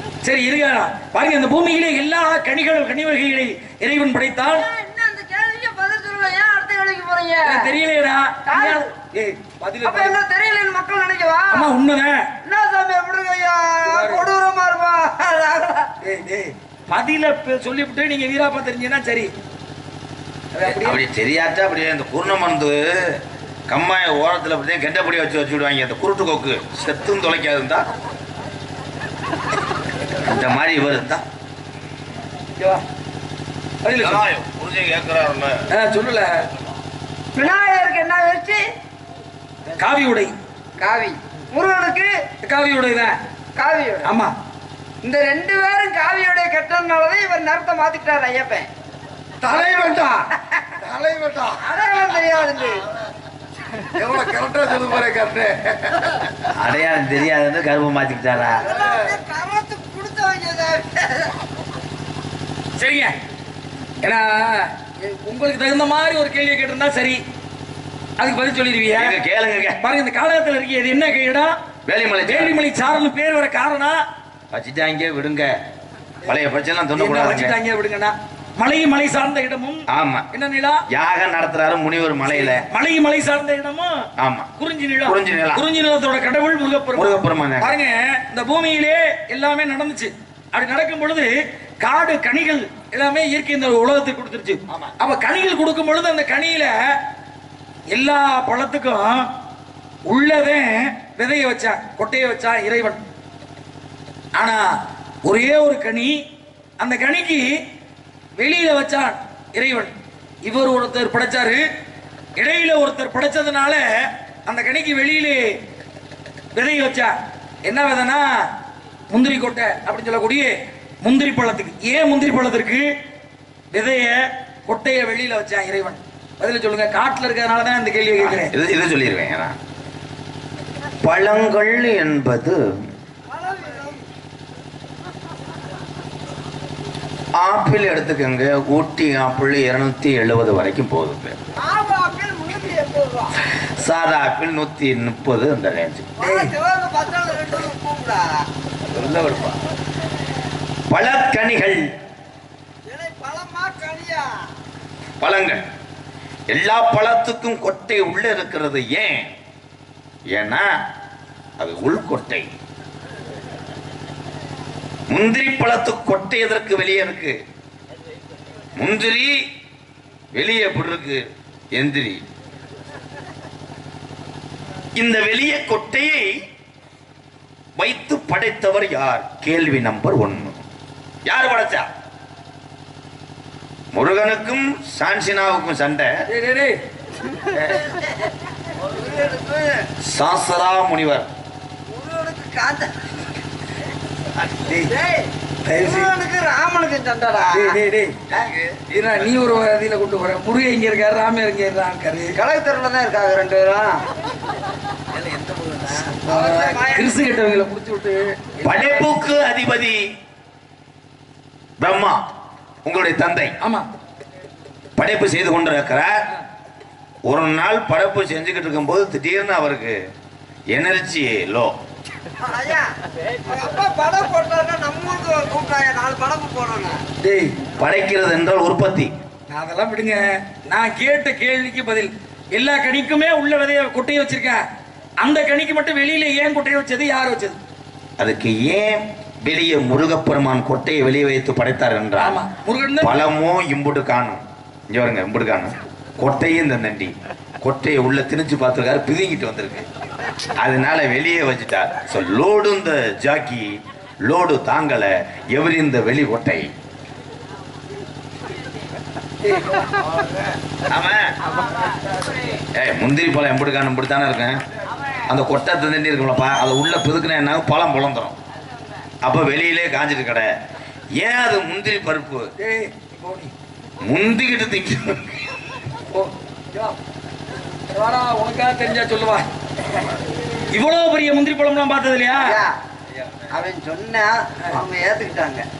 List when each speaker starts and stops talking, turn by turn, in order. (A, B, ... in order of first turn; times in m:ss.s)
0:00.2-0:04.6 A
0:04.5-0:07.8 B
0:07.4-0:10.2 A
0:08.4-0:08.9 B
0:09.8-0:11.8 B
0:11.5-0:12.2 A
0:12.4-0:15.9 B
0:13.8-0:14.3 A
0:16.0-0:19.3 A
0:20.5-0:21.0 A
0:20.7-0:23.2 C
0:23.7-0:27.8 C
0:30.2-0:31.2 C
0:32.6-0:32.8 A
0:33.8-0:34.2 A
0:34.0-0:35.6 C
0:35.7-0:36.4 A
0:37.3-0:38.6 B
0:39.8-0:40.3 A
0:40.8-0:42.1 B
0:42.4-0:43.2 A
0:43.6-0:44.1 B
0:44.0-0:44.3 A
0:45.0-0:48.7 B
0:49.5-0:50.2 A
0:50.4-0:52.8 B
0:54.0-0:55.7 B
0:56.4-0:58.6 C
0:58.6-1:01.3 B
1:02.8-1:03.1 A
1:04.0-1:07.2 A
1:08.2-1:09.1 A
1:08.9-1:09.8 C
1:09.8-1:11.5 A
1:11.8-1:12.6 C
1:12.3-1:14.0 A
1:14.5-1:15.5 C
1:16.2-1:17.5 C
1:17.0-1:20.8 A
1:19.9-1:20.3 C
1:20.9-1:22.6 C
1:22.2-1:24.0 A
1:24.2-1:24.5 C
1:24.6-1:36.9 A
1:25.0-1:25.6 C
1:26.9-1:27.8 C
1:34.7-1:34.9 C
1:37.9-1:39.2 A
1:40.1-1:43.0 A
1:44.4-1:44.6 A
1:45.2-1:46.2 A
1:46.8-1:47.5 A
1:48.4-1:49.9 A
1:50.4-1:51.6 A
1:52.4-1:55.6 A
1:56.5-1:57.1 A
1:57.6-1:58.3 A
1:59.1-2:02.9 A
2:03.7-2:08.5 A
2:08.2-2:09.6 C
2:11.0-2:12.6 C
2:13.3-2:14.1 B
2:17.4-2:21.4 C
2:21.6-2:23.4 B
2:23.4-2:26.1 C
2:26.2-2:28.4 B
2:26.2-2:26.5 A
2:28.9-2:29.6 C
2:30.9-2:31.8 C
2:32.8-2:34.3 B
2:35.2-2:35.6 C
2:36.5-2:39.3 C
2:40.3-2:40.6 C
2:41.6-2:42.5 C
2:45.1-2:47.4 C
2:48.8-2:49.3 C
2:50.3-2:51.2 C
2:51.7-2:52.2 C
2:55.0-2:56.4 C
2:57.8-3:00.6 C
3:01.2-3:01.9 C
3:03.9-3:06.2 C
3:06.3-3:06.7 A
3:07.5-3:07.9 C
3:08.8-3:09.9 B
3:10.0-3:11.3 C
3:11.9-3:13.2 B
3:14.4-3:14.7 C
3:14.7-3:14.9 A
3:14.8-3:17.8 B
3:15.6-3:16.1 A
3:17.5-3:18.2 A
3:18.3-3:19.4 C
3:18.9-3:22.3 A
3:22.3-3:24.0 B
3:25.1-3:26.2 C
3:26.2-3:27.2 B
3:26.3-3:29.1 A
3:28.6-3:30.0 C
3:31.8-3:32.2 C
3:32.8-3:33.5 C
3:33.6-3:33.9 A
3:35.0-3:36.2 C
3:37.3-3:40.0 C
3:40.7-3:41.7 C
3:42.4-3:42.9 B
3:43.4-3:47.0 B
3:47.2-3:47.6 A
3:47.8-3:49.1 C
3:49.5-3:54.6 A
3:55.2-3:57.6 A
3:58.2-4:02.4 C
4:02.2-4:03.3 A
4:03.0-4:09.8 C
4:10.6-4:16.7 C
4:20.9-4:21.3 C
4:22.7-4:24.6 C
4:25.3-4:28.4 C
4:29.2-4:30.5 C
4:31.2-4:32.5 C
4:32.6-4:33.5 A
4:34.0-4:35.2 C
4:36.1-4:37.0 A
4:37.9-4:39.4 A
4:40.7-4:42.6 A
4:42.4-4:42.8 B
4:43.5-4:45.6 B